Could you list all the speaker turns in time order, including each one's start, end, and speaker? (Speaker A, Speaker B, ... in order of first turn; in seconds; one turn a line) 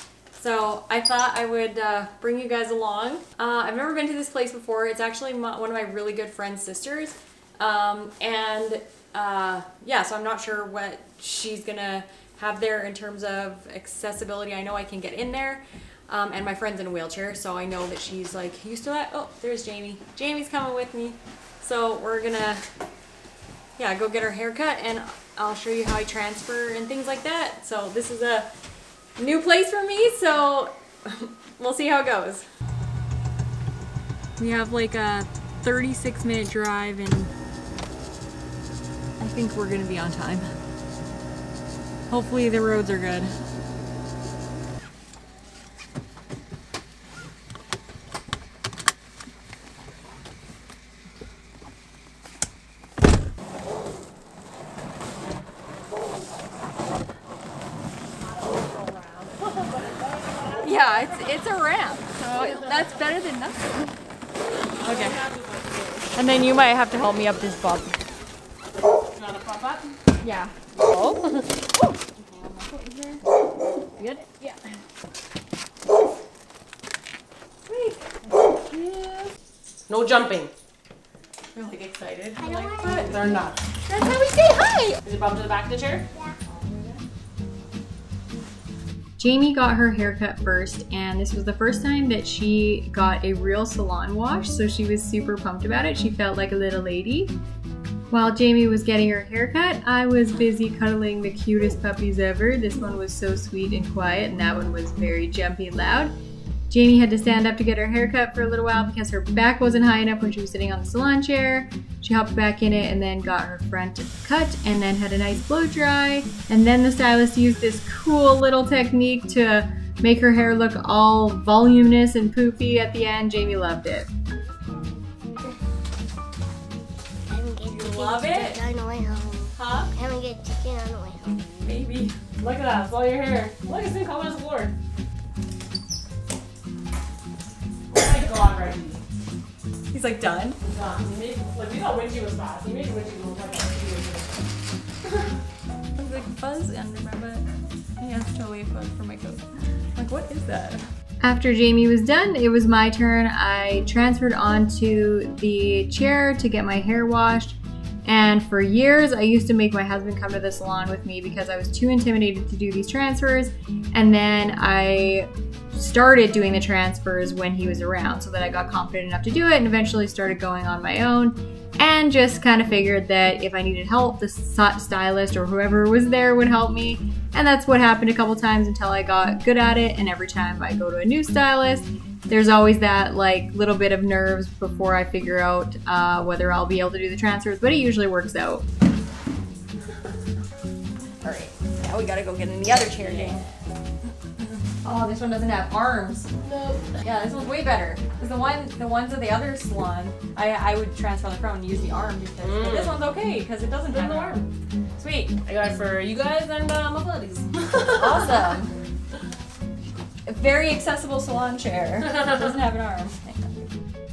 Speaker A: 0.3-22.6
Speaker A: 23.8-28.5
Speaker A: 29.2-32.4
Speaker A: 34.4-37.3
Speaker A: 39.2-40.5
Speaker A: 42.1-43.3
Speaker B: 58.3-61.4
Speaker A: 60.6-63.9
Speaker B: 64.8-66.2
Speaker A: 64.8-65.2
Speaker A: 66.2-68.0
Speaker B: 69.1-70.0
Speaker A: 70.2-71.4
Speaker A: 72.2-73.2
Speaker A: 74.0-74.6
Speaker A: 77.7-78.2
Speaker A: 78.7-79.2
Speaker B: 79.9-80.5
Speaker A: 81.5-83.2
Speaker C: 82.5-83.2
Speaker B: 83.0-83.6
Speaker A: 83.8-85.0
Speaker B: 85.0-86.1
Speaker A: 86.4-87.0
Speaker A: 89.2-97.3
Speaker A: 98.1-106.1
Speaker A: 106.7-124.1
Speaker C: 127.3-131.7
Speaker A: 127.6-128.6
Speaker A: 129.5-129.9
Speaker A: 131.6-132.1
Speaker B: 132.4-134.7
Speaker B: 137.9-139.0
Speaker A: 139.9-140.6
Speaker B: 140.6-144.4
Speaker A: 145.9-147.4
Speaker A: 148.0-149.4
Speaker A: 149.9-188.6
Speaker A: 191.2-193.4
Speaker B: 192.9-193.5
Speaker A: 194.4-196.3
Speaker B: 196.4-197.0
Speaker A: 197.0-204.4
Speaker B: 202.4-202.9
Speaker B: 203.9-204.5
Speaker A: 205.0-205.4
Speaker B: 205.4-208.4
Speaker A: 207.9-208.8
Speaker A: 210.2-213.7